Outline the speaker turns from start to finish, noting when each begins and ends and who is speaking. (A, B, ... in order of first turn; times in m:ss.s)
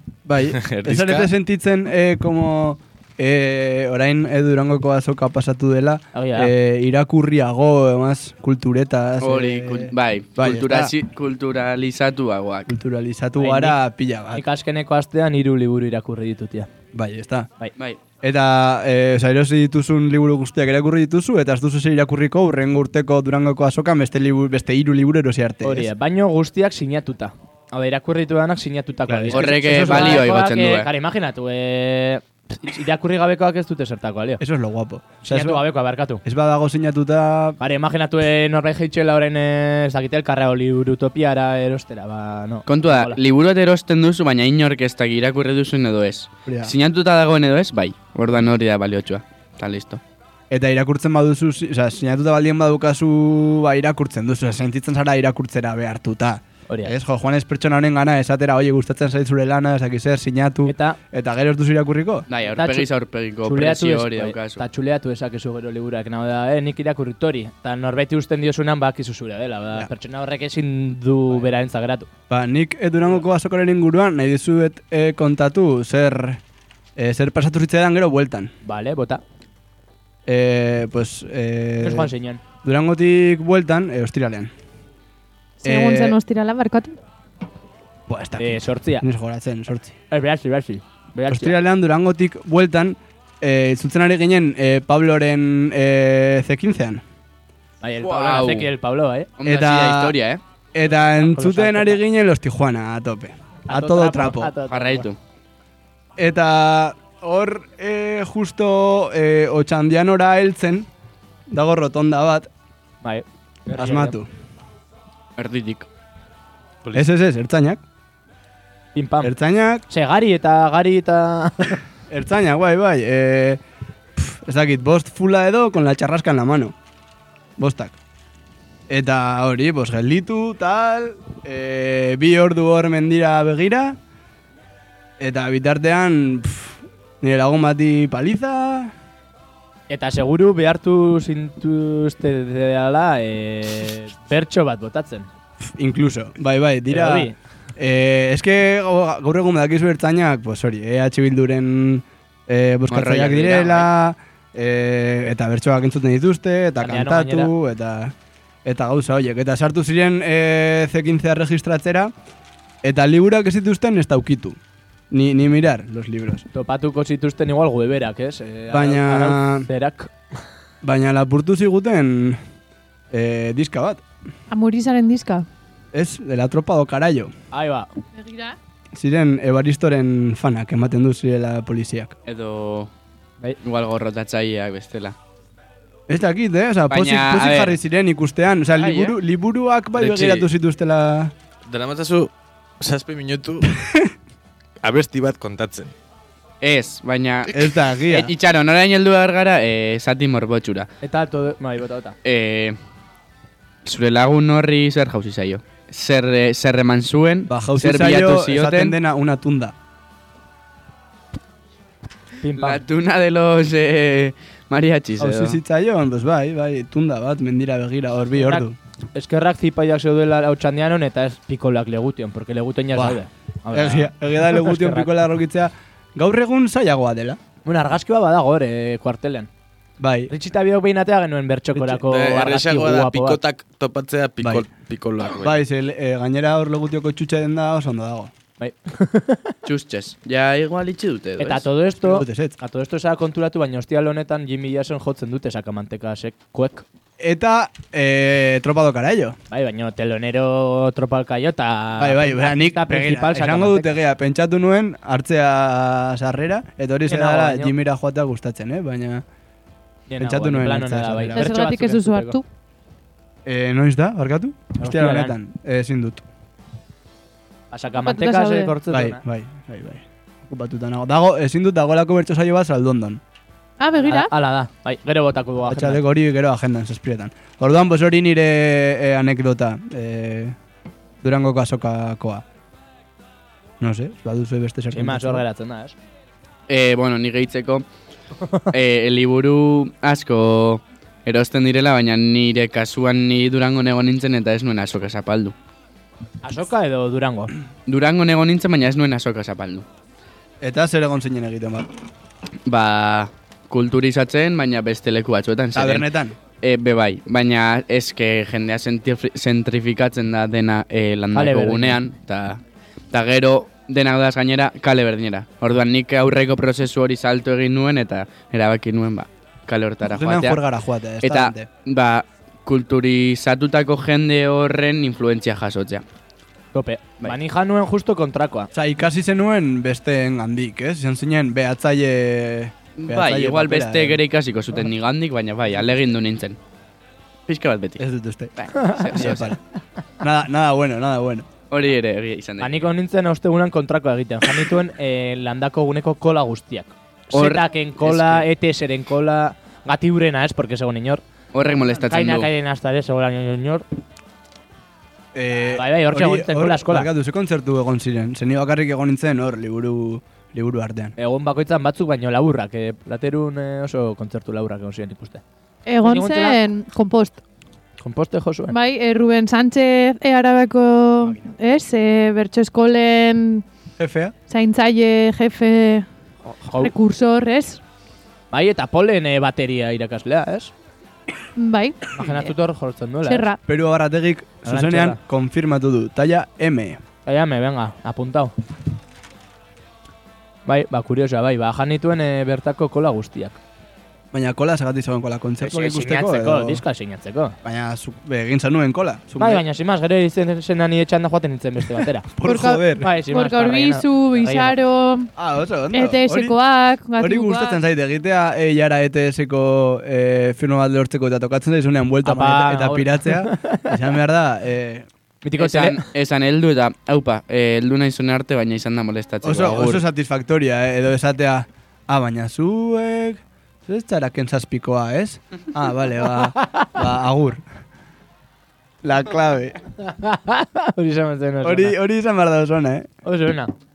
0:00.2-0:10.9 A
0:00.6-0:01.3 B
0:06.1-0:06.5 C
0:09.2-0:12.7 D
0:12.7-0:14.4 A
0:13.4-0:13.8 C
0:14.3-0:16.7 C
0:16.9-0:17.5 A
0:17.8-0:18.0 D
0:18.2-0:25.9 A
0:25.6-0:34.4 C
0:29.1-0:30.3 A
0:29.3-0:30.9 D
0:34.4-0:35.6 A
0:35.2-0:36.2 C
0:36.2-0:37.6 A
0:37.6-0:43.2 C
0:42.7-0:50.0 D
0:46.4-0:46.7 A
0:50.5-1:02.2 A
0:56.7-0:56.9 C
1:00.6-1:01.0 C
1:02.3-1:04.6 D
1:02.5-1:02.9 C
1:03.4-1:12.1 C
1:12.3-1:16.4 A
1:17.0-1:18.5 A
1:18.6-1:19.2 C
1:20.3-1:22.1 A
1:21.8-1:22.4 C
1:22.6-1:24.5 A
1:25.6-1:27.0 E
1:25.6-1:26.2 A
1:28.1-1:29.9 A
1:28.4-1:29.0 C
1:30.1-1:31.6 C
1:31.3-1:37.0 A
1:37.8-1:39.3 C
1:38.0-1:38.7 D
1:39.4-1:40.4 D
1:39.4-1:40.2 A
1:40.7-1:44.5 A
1:41.1-1:42.0 C
1:43.7-1:45.1 C
1:44.6-1:45.2 D
1:46.2-1:50.9 A
1:51.5-1:52.5 A
1:53.0-1:54.2 C
1:53.7-1:54.3 A
1:55.4-1:55.9 D
1:56.9-1:57.8 A
1:58.9-1:59.3 C
1:59.2-1:59.8 A
1:59.9-2:01.8 C
2:02.1-2:03.6 A
2:04.2-2:06.7 A
2:07.6-2:08.0 A
2:08.9-2:14.0 A
2:15.2-2:18.9 A
2:19.9-2:25.3 C
2:25.6-2:42.1 A
2:26.9-2:27.4 C
2:32.9-2:33.9 D
2:36.8-2:37.5 C
2:42.8-2:44.6 A
2:45.1-2:46.4 A
2:46.5-2:50.1 C
2:48.7-2:49.7 A
2:50.8-2:52.4 A
2:53.1-2:54.0 A
2:54.5-2:55.4 E
2:55.9-2:57.3 A
2:57.5-2:57.9 C
2:58.1-2:58.6 E
2:58.9-3:02.1 A
3:02.2-3:02.9 D
3:03.6-3:05.2 D
3:06.1-3:11.3 A
3:06.9-3:07.8 D
3:10.0-3:10.5 B
3:11.7-3:13.7 B
3:13.8-3:14.1 A
3:14.8-3:15.9 B
3:16.6-3:20.9 D
3:17.5-3:18.3 A
3:21.0-3:22.2 C
3:22.2-3:22.8 D
3:23.8-3:29.0 D
3:27.5-3:29.7 A
3:32.4-3:32.8 C
3:32.6-3:35.6 D
3:35.2-3:38.8 A
3:38.4-3:45.2 C
3:42.9-3:47.4 A
3:47.6-3:49.5 C
3:50.0-3:50.3 A
3:50.3-3:53.4 C
3:52.0-3:55.6 B
3:54.4-3:54.6 A
3:55.4-3:58.3 A
3:58.6-3:59.5 C
3:59.6-4:01.7 D
4:01.4-4:06.8 C
4:02.0-4:02.6 A
4:07.2-4:09.4 A
4:09.5-4:13.9 C
4:12.0-4:19.2 A
4:17.1-4:17.7 C
4:20.1-4:22.4 C
4:20.2-4:21.5 A
4:21.3-4:22.4 E
4:23.4-4:26.2 A
4:24.8-4:25.4 C
4:27.7-4:29.2 C
4:28.0-4:28.7 E
4:28.9-4:33.2 A
4:33.8-4:34.3 E
4:34.0-4:36.0 C
4:35.6-4:40.6 A
4:41.2-4:42.4 A
4:43.8-4:45.4 A
4:44.9-4:45.9 C
4:46.7-4:47.8 D
4:48.7-4:55.5 D
4:56.4-4:57.5 C
4:57.9-4:59.8 D
5:00.6-5:01.9 A
5:02.6-5:06.1 D
5:05.7-5:06.4 A
5:06.6-5:20.6 D
5:11.3-5:12.0 C
5:20.0-5:21.7 A
5:21.2-5:26.0 D
5:26.7-5:28.7 C
5:28.7-5:34.2 A
5:33.0-5:36.6 D
5:37.5-5:38.0 D
5:38.0-5:38.5 A
5:38.6-5:39.5 D
5:39.0-5:39.6 A
5:40.2-5:41.5 A
5:41.7-5:42.8 D
5:42.6-5:51.2 C
5:47.3-5:48.4 D
5:51.5-5:52.5 D
5:52.0-5:53.8 C
5:55.3-6:01.1 A
5:55.7-5:57.1 C
6:01.2-6:05.4 C
6:05.8-6:07.4 E
6:06.0-6:06.6 C
6:08.0-6:08.7 C
6:08.7-6:13.6 E
6:14.0-6:14.3 A
6:14.5-6:16.1 E
6:16.6-6:16.9 C
6:16.7-6:17.8 E
6:18.5-6:20.7 C
6:21.6-6:22.5 E
6:22.1-6:23.5 C
6:23.2-6:23.6 E
6:23.7-6:27.0 A
6:24.6-6:25.2 C
6:27.2-6:28.5 C
6:30.6-6:33.6 C
6:34.3-6:36.8 A
6:35.6-6:37.6 C
6:37.6-6:39.6 A
6:39.4-6:42.3 C
6:42.4-6:43.1 A
6:42.4-6:45.3 E
6:43.0-6:44.8 C
6:45.4-6:46.6 A
6:45.9-6:47.8 E
6:47.2-6:55.1 A
6:52.2-6:53.9 C
6:55.4-6:56.0 C
6:55.6-7:00.0 D
6:59.4-7:07.6 A
7:09.0-7:09.8 A
7:10.0-7:12.0 C
7:11.6-7:13.1 A
7:13.2-7:13.7 C